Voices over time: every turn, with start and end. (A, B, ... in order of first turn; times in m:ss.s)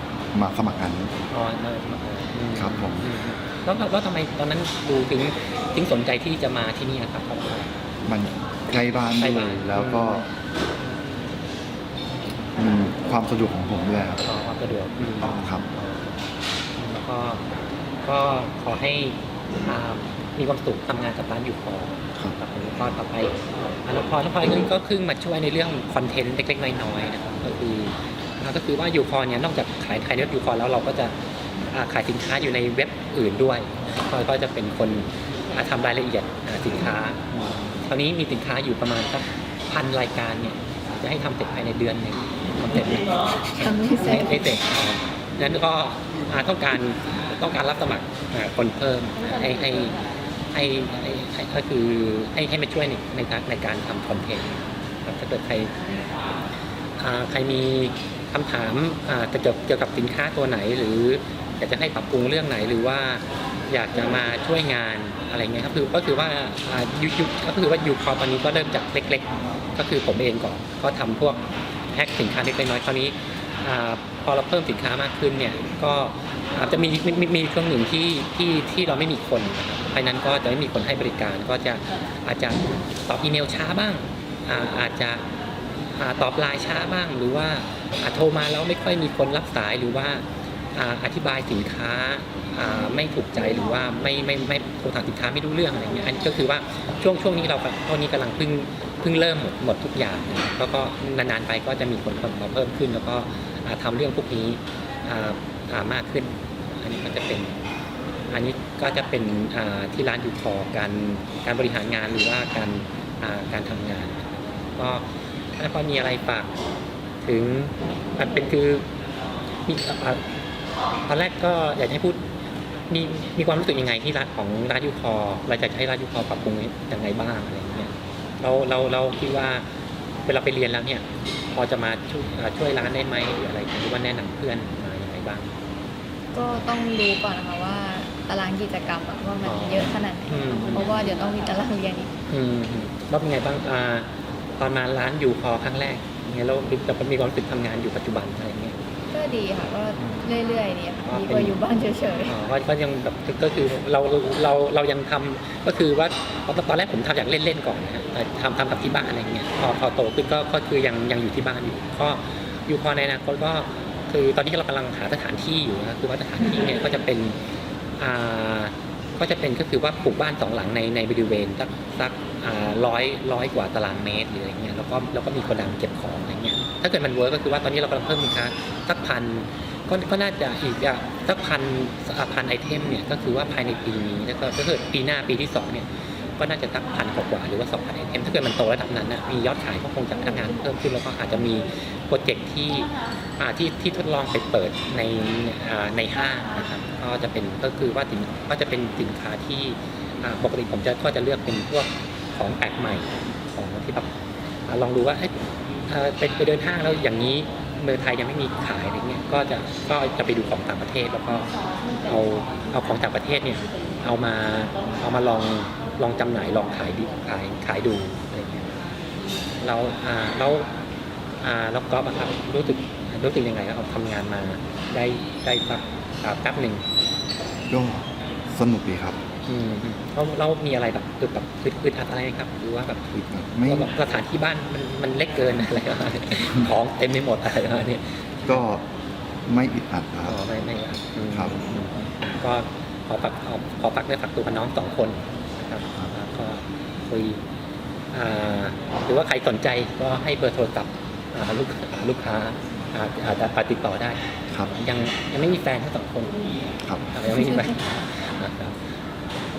0:00.3-0:01.1 A
0:01.3-0:07.7 B
0:02.6-0:03.1 A
0:08.1-0:10.3 A
0:09.2-0:10.3 B
0:12.6-0:14.2 A
0:14.2-0:16.2 B
0:15.2-0:15.7 A
0:16.8-0:17.4 B
0:18.0-0:31.2 B
0:31.7-0:50.0 B
0:43.5-0:44.6 C
0:50.5-0:55.8 B
0:57.0-1:25.3 B
1:26.0-1:47.6 B
1:48.3-1:56.6 B
1:57.2-1:58.9 B
1:59.7-2:00.2 B
2:01.1-2:02.2 B
2:02.9-2:09.6 B
2:10.3-2:15.5 B
2:16.3-2:22.1 C
2:19.4-2:21.0 B
2:22.3-2:28.8 B
2:29.1-2:32.4 C
2:31.0-2:31.6 B
2:32.3-2:47.4 B
2:48.0-3:24.1 B
3:24.7-3:25.3 B
3:25.9-3:31.5 B
3:32.0-3:38.7 B
3:39.6-3:40.7 B
3:41.4-3:46.8 B
3:47.7-3:49.2 A
3:49.5-3:53.1 B
3:53.1-3:53.9 A
3:53.7-3:58.6 B
3:58.5-3:58.9 A
3:59.5-4:00.4 A
4:00.3-4:07.4 B
4:01.3-4:01.6 A
4:08.1-4:18.8 B